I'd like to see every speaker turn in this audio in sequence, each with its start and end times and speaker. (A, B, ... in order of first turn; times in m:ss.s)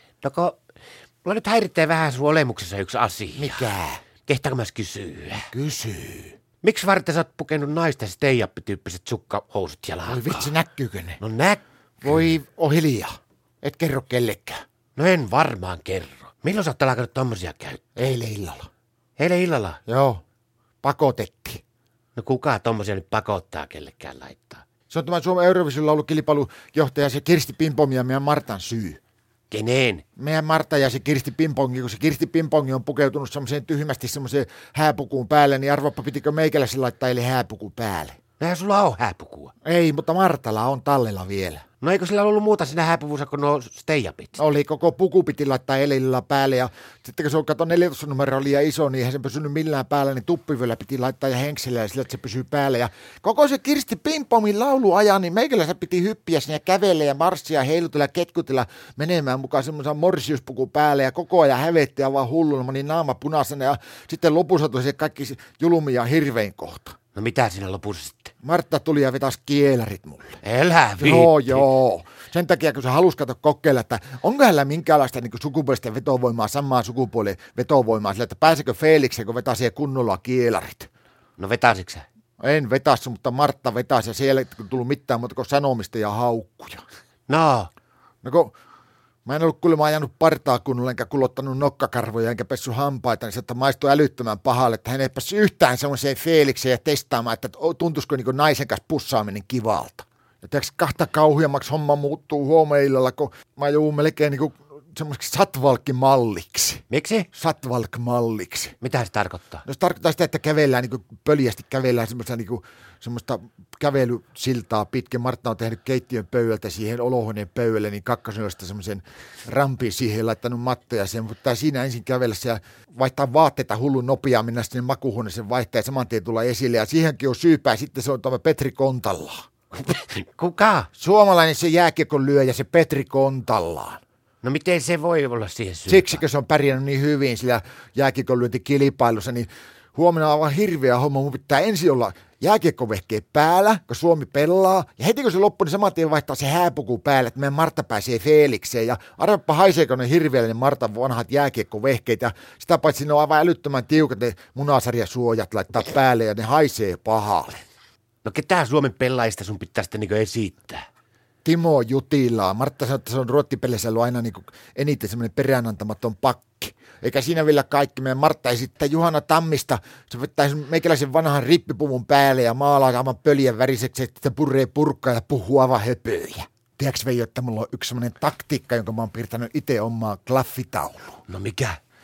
0:00.2-0:00.6 A
0:01.2-0:03.7 A
0:03.4-0:04.0 B
0:04.2-0:05.5 A
0:05.5-0:06.4 B
0:06.6-0:10.5 A
0:10.1-0:11.2 B
0:11.2-0:11.6 A
0:12.0-0:14.6 B
0:15.0-0:17.8 A
0:18.0-0:18.7 B
0:19.2-0:19.8 A
0:19.8-0:20.2 B
0:20.8-0:21.6 B
0:22.2-0:24.6 A
0:24.9-0:29.0 B
0:29.5-0:30.0 A
0:30.2-0:38.2 B
0:38.4-0:39.5 A
0:39.6-0:41.6 B
0:41.8-0:44.4 A
0:44.4-1:07.0 B
1:07.1-1:08.3 A
1:08.4-1:10.4 B
1:10.4-1:11.7 A
1:11.0-1:20.9 B
1:21.4-1:22.0 A
1:22.4-1:26.8 B
1:27.3-1:27.7 A
1:28.2-1:28.5 B
1:29.2-1:48.8 B
1:46.9-1:47.3 A
1:48.8-1:49.6 A
1:49.6-2:09.4 B
2:09.7-2:10.9 A
2:10.9-2:14.0 B
2:14.4-2:16.2 A
2:15.9-2:37.6 B
2:38.2-2:40.8 A
2:41.4-3:01.2 B
3:01.3-3:01.8 A